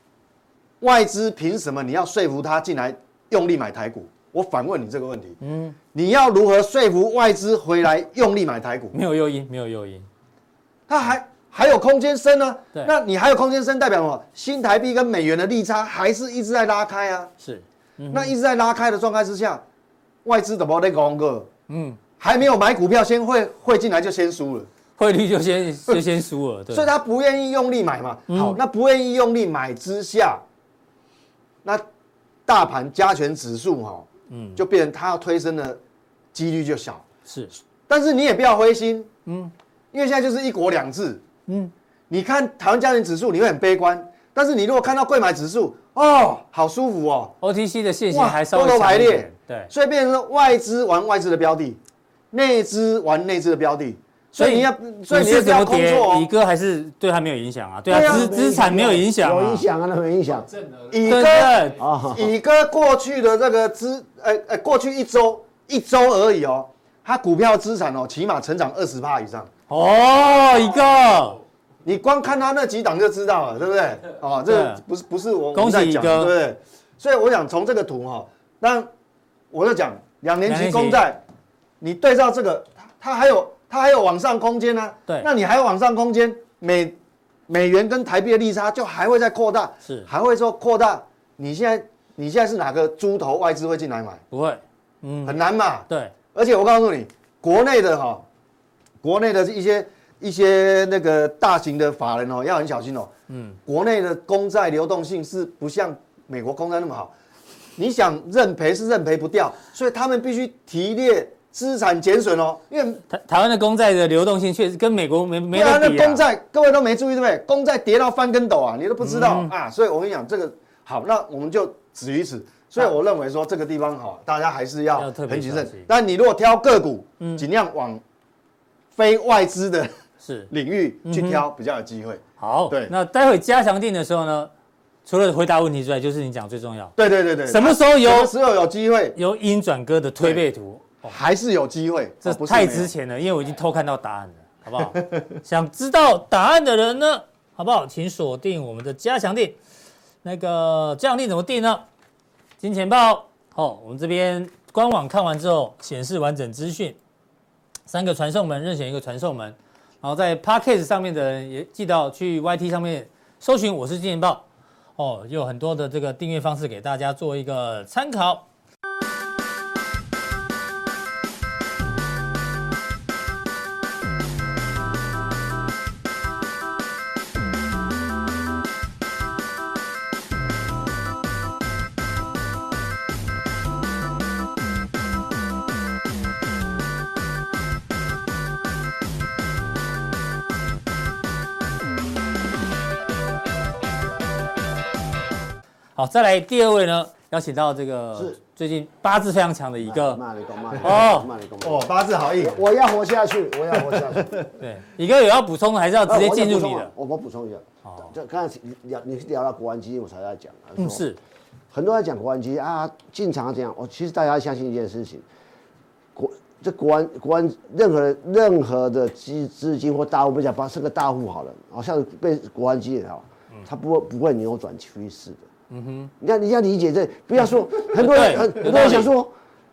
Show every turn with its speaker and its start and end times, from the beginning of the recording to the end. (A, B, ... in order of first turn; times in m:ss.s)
0:00.8-0:05.4 A
0:05.4-0:05.8 B
0:05.9-0:09.0 A
0:08.9-0:10.1 B
0:10.9-0:17.3 A
0:17.4-0:18.3 B
0:18.1-0:19.6 A
0:20.2-0:21.5 A
0:21.7-0:22.0 B
0:22.2-0:24.7 A
0:25.0-0:26.9 B
0:26.7-0:30.4 A
0:28.3-0:28.6 B
0:32.5-0:35.8 A
0:34.3-0:34.6 B
0:36.3-0:37.0 A
0:37.3-0:37.5 B
0:37.9-0:39.1 A
0:39.3-0:39.5 B
0:39.9-0:41.2 A
0:41.5-0:41.7 B
0:42.1-0:47.4 A
0:47.4-0:49.7 B
0:48.1-0:51.8 A
0:52.3-0:56.3 A
0:54.4-0:59.6 B
0:57.9-0:58.3 A
0:57.9-1:00.6 C
1:00.9-1:09.5 A
1:01.1-1:01.8 B
1:01.8-1:02.3 C
1:09.7-1:11.4 B
1:11.8-1:18.9 A
1:14.5-1:14.8 B
1:15.5-1:16.3 B
1:19.5-1:21.2 A
1:20.4-1:21.0 B
1:21.8-1:27.0 A
1:27.5-1:34.2 A
1:34.3-1:35.4 B
1:35.2-1:38.2 A
1:39.0-1:43.1 A
1:43.3-1:43.6 B
1:43.7-1:47.1 A
1:47.8-1:53.0 A
1:53.1-1:56.2 B
1:55.5-2:08.0 A
1:59.0-1:59.5 B
2:05.0-2:05.9 B
2:08.9-2:10.0 A
2:10.2-2:10.5 B
2:10.5-2:12.9 A
2:11.0-2:11.4 B
2:12.4-2:14.5 B
2:15.1-2:16.9 B
2:17.0-2:19.2 A
2:17.5-2:18.3 B
2:19.2-2:21.2 B
2:21.0-2:22.9 A
2:22.2-2:29.6 B
2:30.2-2:31.8 B
2:32.6-2:37.0 B
2:37.9-2:44.4 B
2:45.0-2:48.5 B
3:16.0-3:20.2 B
3:19.8-3:24.4 C
3:20.8-3:21.3 B
3:21.6-3:22.6 A
3:24.6-3:26.9 B
3:26.1-3:31.0 C
3:27.8-3:28.1 B
3:30.8-3:31.2 B
3:31.7-3:35.3 C
3:36.2-3:45.4 C
3:45.7-3:46.1 B
3:46.2-3:49.3 C
3:47.8-3:49.1 B